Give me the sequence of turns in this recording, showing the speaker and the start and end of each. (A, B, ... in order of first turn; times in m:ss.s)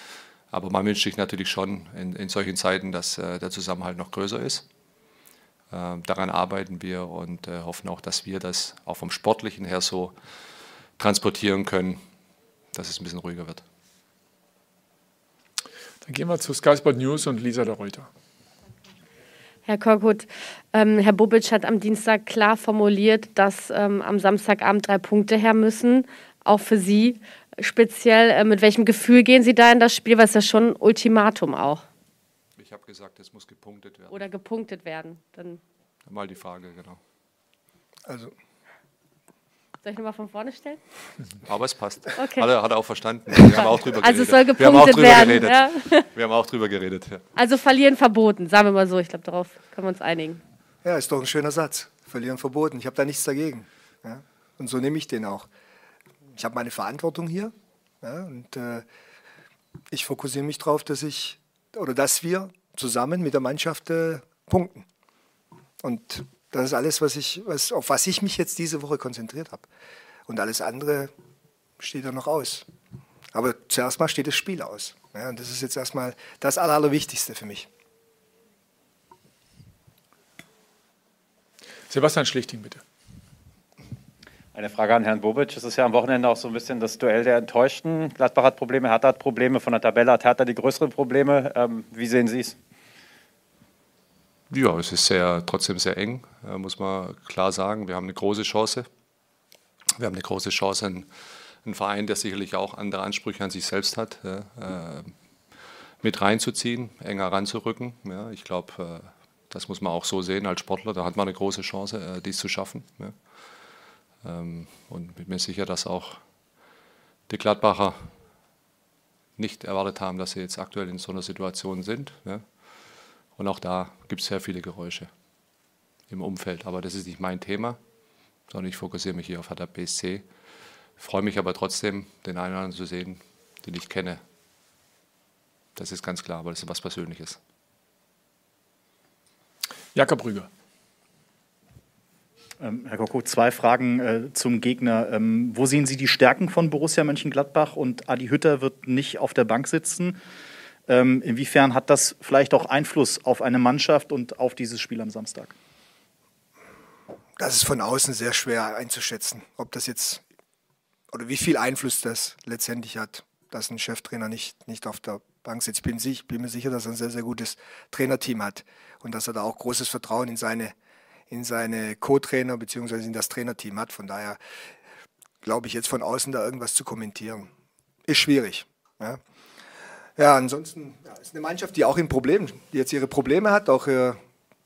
0:00.5-0:04.7 A
0:05.7-0:10.1 A
0:11.0-0:12.0 A
0:12.7-0:13.6 A
0:16.0-0:18.1 B
0:19.7-0:31.8 C
0:32.6-0:34.3 A
0:34.1-0:35.6 C
0:36.1-0:37.0 A
0:38.1-0:38.3 D
0:39.8-0:40.8 C
0:41.4-0:47.2 A
0:42.2-0:42.5 C
0:43.4-0:46.1 C
0:47.4-0:50.4 C
0:50.8-0:55.5 D
0:56.4-0:58.9 D
0:59.9-1:04.8 D
1:05.8-1:09.7 D
1:10.3-1:11.1 D
1:11.8-1:12.6 D
1:13.3-1:17.7 D
1:21.9-1:22.8 B
1:24.5-1:32.6 E
1:34.5-1:38.9 A
1:40.0-1:41.1 A
1:41.6-1:45.1 A
1:46.0-1:53.2 A
1:54.2-1:56.2 A
1:57.3-1:58.1 A
1:59.4-2:02.4 A
2:03.4-2:05.1 A
2:06.1-2:07.8 A
2:08.5-2:10.2 A
2:11.0-2:14.2 A
2:15.8-2:17.4 A
2:19.9-2:20.5 B
2:22.6-2:30.2 F
2:30.9-2:35.5 F
2:37.4-2:40.2 D
2:41.1-2:50.7 D
2:51.3-2:54.4 D
2:55.4-2:57.5 D
2:58.1-2:59.2 D
3:00.2-3:04.2 D